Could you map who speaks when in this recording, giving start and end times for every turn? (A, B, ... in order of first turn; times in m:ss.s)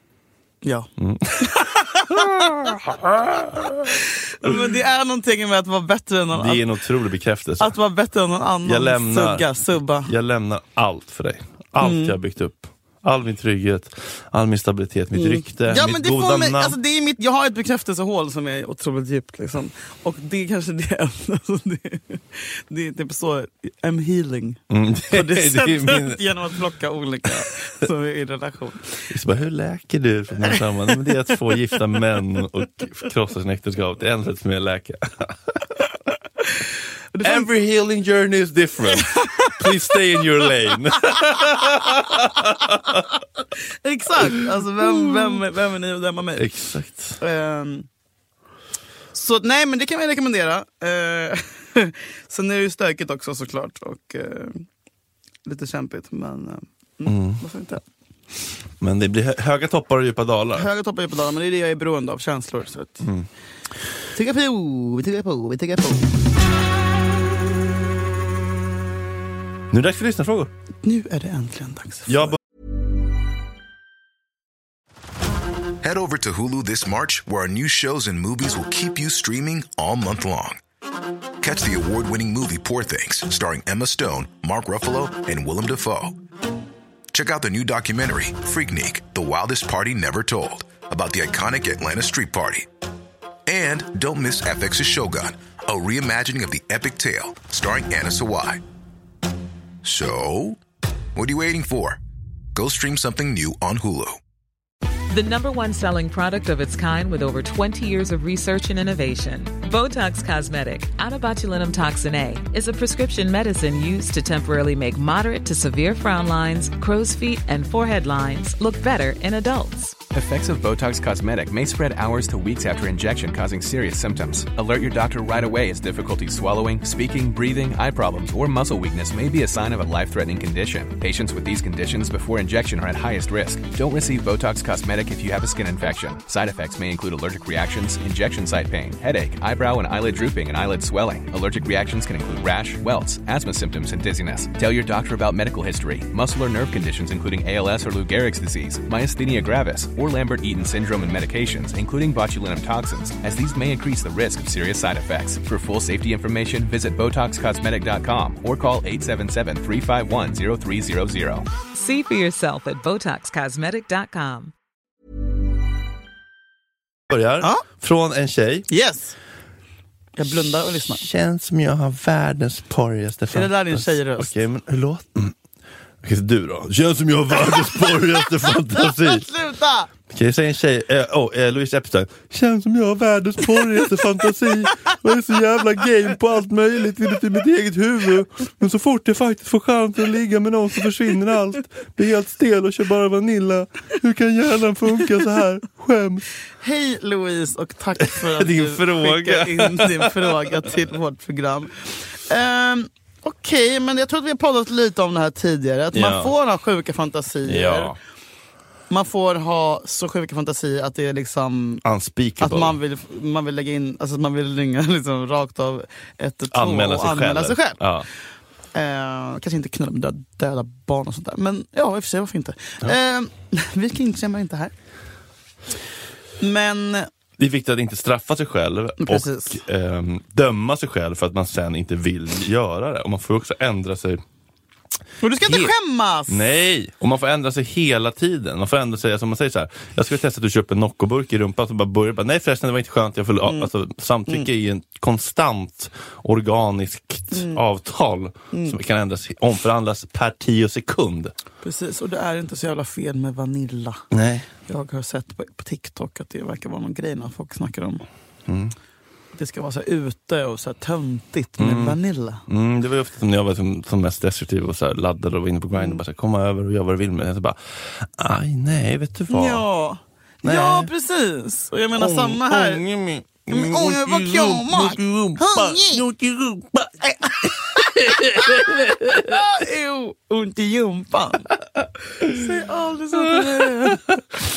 0:00.6-0:02.6 A
0:01.0-0:04.6 B
0:04.0-0:06.6 A
0:06.3-0:07.8 B
0:07.6-0:10.1 A
0:08.6-0:16.8 B
0:11.8-0:12.2 A
0:15.1-0:29.1 A
0:24.7-0:26.2 B
0:29.1-0:35.6 B
0:30.5-0:31.1 A
0:37.1-0:37.5 A
0:37.2-0:43.1 B
0:39.1-0:40.0 A
0:41.1-0:42.2 A
0:43.8-0:46.5 A
0:44.2-0:45.3 B
0:46.4-0:47.2 B
0:47.2-0:47.9 A
0:49.1-0:54.6 A
0:55.5-0:57.8 A
0:57.1-0:57.4 B
0:58.8-1:00.7 B
1:00.6-1:03.1 A
1:03.0-1:03.3 B
1:04.1-1:06.1 A
1:09.7-1:10.5 B
1:10.8-1:12.4 A
1:12.1-1:12.4 B
1:15.8-1:20.6 C
1:21.4-1:26.2 C
1:27.1-1:32.7 C
1:33.5-1:38.6 C
1:39.8-1:40.6 C
1:41.2-1:42.0 C
1:42.6-1:44.2 C
1:45.1-2:00.0 D
2:00.1-2:41.5 E
2:41.7-2:44.5 D
2:47.1-2:48.7 B
2:48.7-2:49.2 A
2:50.2-2:51.1 A
2:51.0-2:55.4 B
2:53.3-2:54.4 A
2:56.0-2:59.3 B
2:57.4-2:59.9 A
3:00.1-3:16.3 B
3:16.6-3:27.9 A
3:18.0-3:20.6 B
3:25.9-3:26.4 B
3:27.4-3:28.0 B
3:28.9-3:31.8 A
3:31.8-3:32.8 B
3:32.4-3:37.8 A
3:36.5-3:38.1 B
3:38.7-3:44.7 A
3:46.4-3:47.1 A
3:47.4-3:54.2 B
3:49.0-3:49.6 A
3:55.2-3:56.5 A
3:55.4-3:55.7 B
3:56.3-4:11.3 B
4:03.4-4:03.7 A
4:07.3-4:07.6 A
4:08.5-4:08.8 A
4:11.6-4:14.0 A
4:14.1-4:14.5 B
4:14.7-4:18.0 A
4:18.5-4:18.8 B
4:19.4-4:22.4 A
4:21.6-4:29.6 B
4:25.8-4:26.0 A
4:29.3-4:32.8 A
4:30.4-4:30.9 B
4:31.9-4:39.4 B
4:33.5-4:36.0 A
4:37.0-4:41.6 A
4:42.2-4:44.0 A
4:43.2-4:44.2 B